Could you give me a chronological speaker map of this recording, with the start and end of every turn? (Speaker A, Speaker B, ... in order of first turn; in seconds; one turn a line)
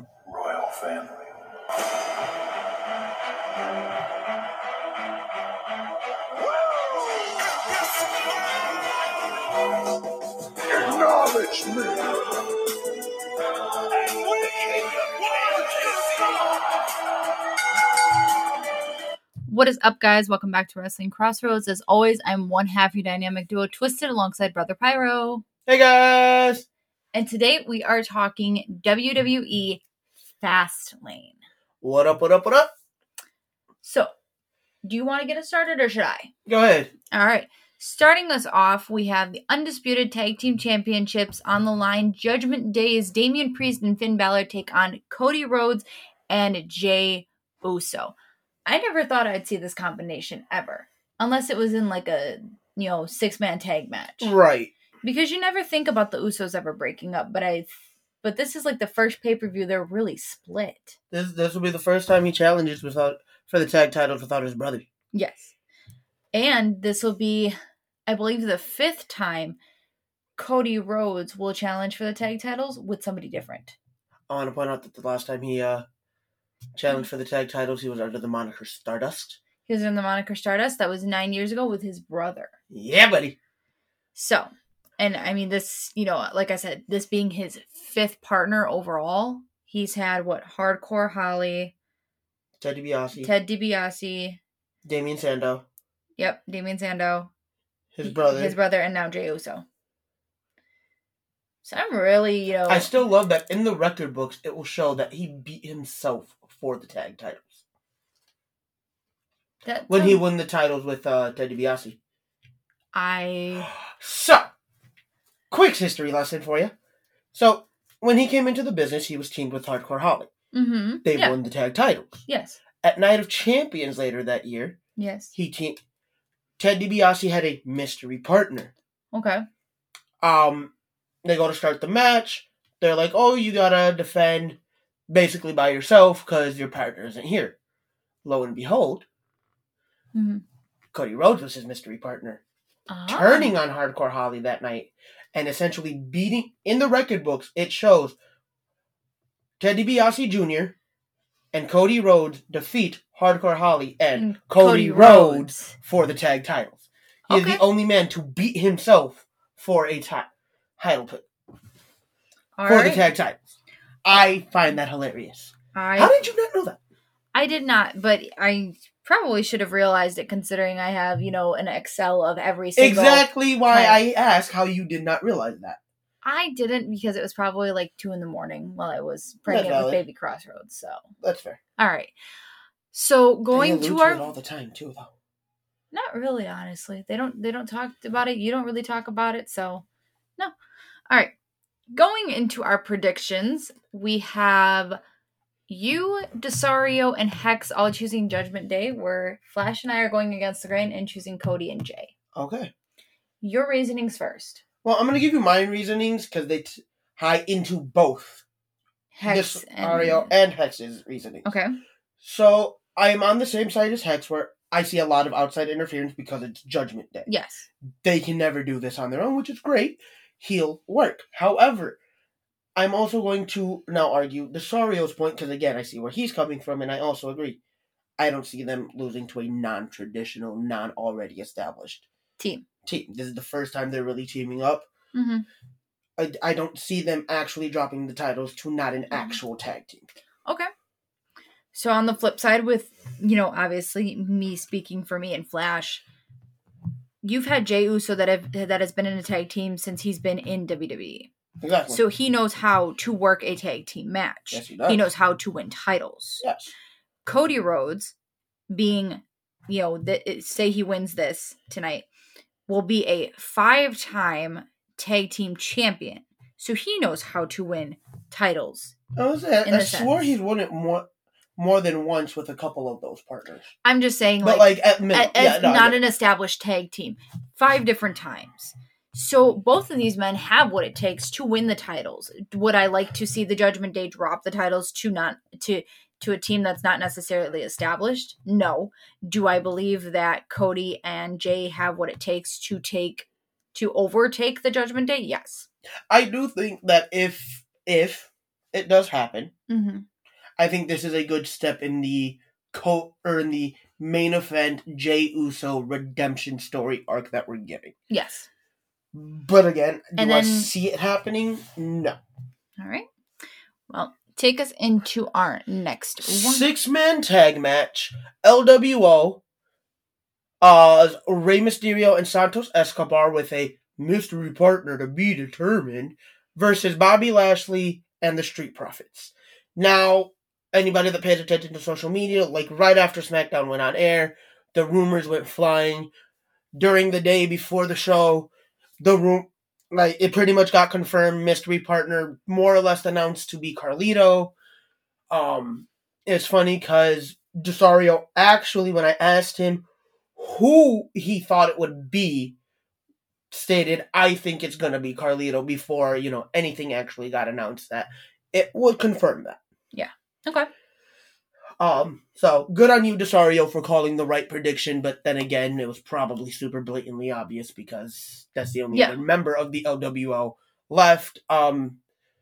Speaker A: 0.3-1.3
Speaker A: 6.5-7.8
Speaker A: 10.7-12.4
Speaker A: 14.2-16.2
Speaker B: 19.5-25.4
Speaker C: 25.7-26.7
Speaker B: 27.1-29.8
Speaker B: 30.4-31.4
Speaker C: 31.8-32.7
Speaker B: 33.8-34.1
Speaker B: 34.8-36.3
Speaker C: 36.5-36.9
Speaker B: 37.1-48.1
Speaker B: 48.7-54.3
Speaker C: 54.2-54.7
Speaker B: 55.0-57.7
Speaker B: 58.2-61.0
Speaker C: 61.1-64.9
Speaker B: 65.1-65.5
Speaker B: 66.3-67.5
Speaker B: 68.1-69.6
Speaker B: 70.4-73.8
Speaker C: 74.3-75.9
Speaker C: 76.8-79.4
Speaker B: 79.7-82.5
Speaker C: 82.7-83.4
Speaker B: 84.2-91.7
Speaker C: 92.6-93.3
Speaker B: 93.2-94.4
Speaker C: 94.8-95.6
Speaker B: 96.2-97.3
Speaker C: 98.0-98.6
Speaker B: 98.0-99.7
Speaker B: 101.6-103.0
Speaker C: 102.7-107.6
Speaker B: 109.7-110.2
Speaker C: 109.9-112.0
Speaker B: 112.9-113.7
Speaker C: 113.7-114.5
Speaker C: 115.5-116.7
Speaker C: 117.3-120.3
Speaker B: 120.5-121.4
Speaker C: 121.0-122.2
Speaker B: 122.3-122.6
Speaker C: 122.8-124.8
Speaker B: 125.0-125.3
Speaker C: 125.3-125.8
Speaker C: 126.6-128.7
Speaker B: 129.1-129.4
Speaker C: 130.2-130.7
Speaker C: 131.2-137.6
Speaker C: 138.2-139.1
Speaker B: 140.1-140.4
Speaker C: 140.9-142.4
Speaker B: 142.9-143.6
Speaker C: 143.1-148.2
Speaker C: 149.6-150.8
Speaker C: 151.5-161.3
Speaker B: 154.1-155.8
Speaker B: 157.3-157.6
Speaker B: 162.6-163.1
Speaker C: 162.7-163.4
Speaker C: 164.1-166.8
Speaker B: 165.7-166.2
Speaker B: 167.3-174.0
Speaker C: 172.8-175.8
Speaker B: 176.2-181.0
Speaker C: 179.5-180.0
Speaker C: 181.2-181.6
Speaker B: 181.8-182.2
Speaker B: 182.9-184.3
Speaker C: 183.5-185.1
Speaker B: 185.9-189.8
Speaker B: 191.9-195.0
Speaker B: 195.7-202.1
Speaker C: 202.4-202.7
Speaker B: 203.4-204.6
Speaker C: 204.8-208.4
Speaker B: 209.1-210.3
Speaker C: 209.2-211.5
Speaker B: 211.4-211.7
Speaker C: 212.2-217.3
Speaker B: 217.3-217.7
Speaker C: 218.0-222.0
Speaker C: 222.8-227.6
Speaker C: 228.2-232.1
Speaker B: 232.4-232.7
Speaker C: 232.9-234.9
Speaker B: 235.1-235.4
Speaker C: 236.2-240.1
Speaker B: 239.1-239.4
Speaker B: 241.7-246.0
Speaker B: 247.2-251.3
Speaker C: 251.6-252.0
Speaker B: 251.9-256.4
Speaker C: 254.5-255.1
Speaker C: 256.4-256.7
Speaker B: 257.2-258.1
Speaker B: 258.7-262.1
Speaker B: 262.7-268.9
Speaker C: 269.2-271.1
Speaker B: 269.6-270.1
Speaker C: 271.6-273.7
Speaker B: 273.8-295.7
Speaker C: 274.4-276.0
Speaker C: 296.1-299.5
Speaker B: 299.7-300.1
Speaker C: 300.6-307.9
Speaker B: 308.1-308.5
Speaker C: 309.1-312.2
Speaker B: 310.2-310.7
Speaker B: 312.8-313.1
Speaker B: 313.9-316.7
Speaker C: 316.2-319.4
Speaker C: 320.6-336.1
Speaker C: 336.8-344.5
Speaker C: 345.3-349.9
Speaker C: 350.4-352.6
Speaker C: 353.5-359.6
Speaker B: 359.9-360.7
Speaker C: 361.8-372.0
Speaker B: 368.9-369.2